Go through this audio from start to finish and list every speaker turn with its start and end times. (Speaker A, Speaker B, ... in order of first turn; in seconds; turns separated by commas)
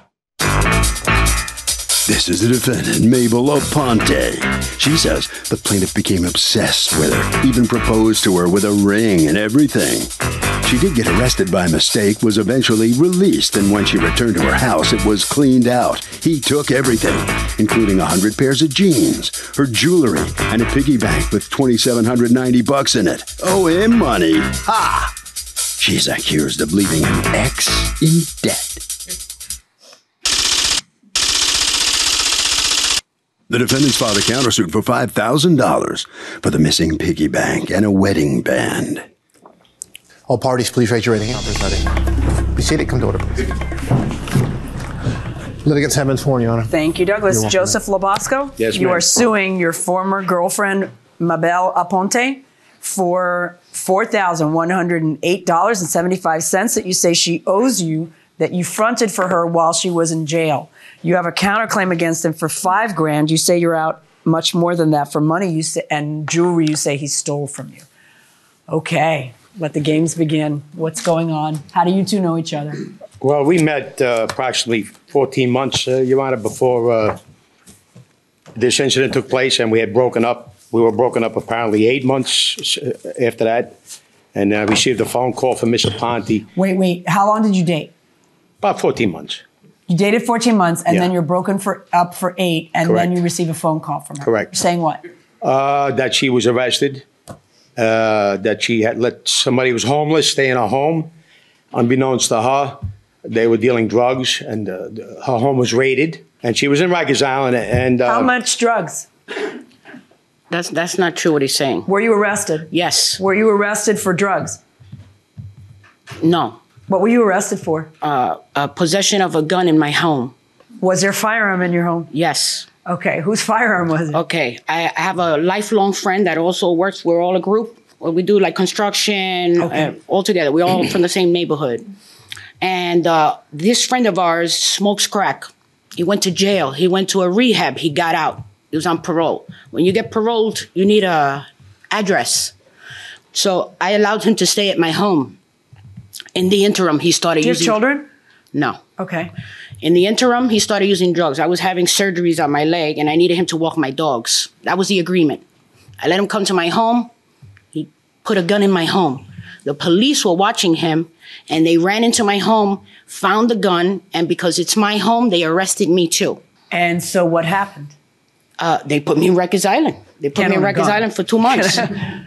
Speaker A: 2.0-25.2, Speaker A: 25.8-28.9, Speaker A: 33.5-39.1, Speaker B: 40.3-42.0, Speaker B: 42.5-43.5, Speaker B: 45.6-46.7, Speaker C: 46.7-67.9, Speaker B: 47.3-47.7, Speaker D: 48.6-49.0, Speaker C: 68.7-72.8, Speaker D: 73.2-77.2, Speaker D: 78.5-83.8, Speaker D: 84.3-86.5, Speaker C: 86.5-87.9, Speaker D: 88.6-89.4, Speaker C: 89.9-95.0, Speaker D: 92.8-93.2, Speaker D: 94.2-94.5, Speaker D: 95.4-97.0, Speaker D: 97.8-101.1, Speaker D: 101.7-108.3, Speaker C: 108.0-109.1, Speaker E: 110.5-111.9, Speaker C: 111.9-114.6, Speaker E: 112.7-113.2, Speaker E: 116.2-116.6, Speaker C: 116.9-117.9, Speaker E: 118.0-120.3, Speaker C: 120.8-122.1, Speaker E: 122.1-122.7, Speaker C: 122.9-124.2, Speaker E: 124.1-131.9, Speaker C: 129.6-129.9, Speaker E: 132.6-142.5, Speaker E: 143.3-145.4, Speaker E: 146.3-147.8, Speaker C: 147.4-148.1, Speaker E: 148.5-148.8, Speaker C: 149.0-149.3, Speaker E: 149.8-155.4, Speaker E: 156.0-157.1, Speaker E: 157.7-166.4, Speaker C: 166.7-167.9, Speaker E: 168.6-171.9, Speaker C: 170.3-172.1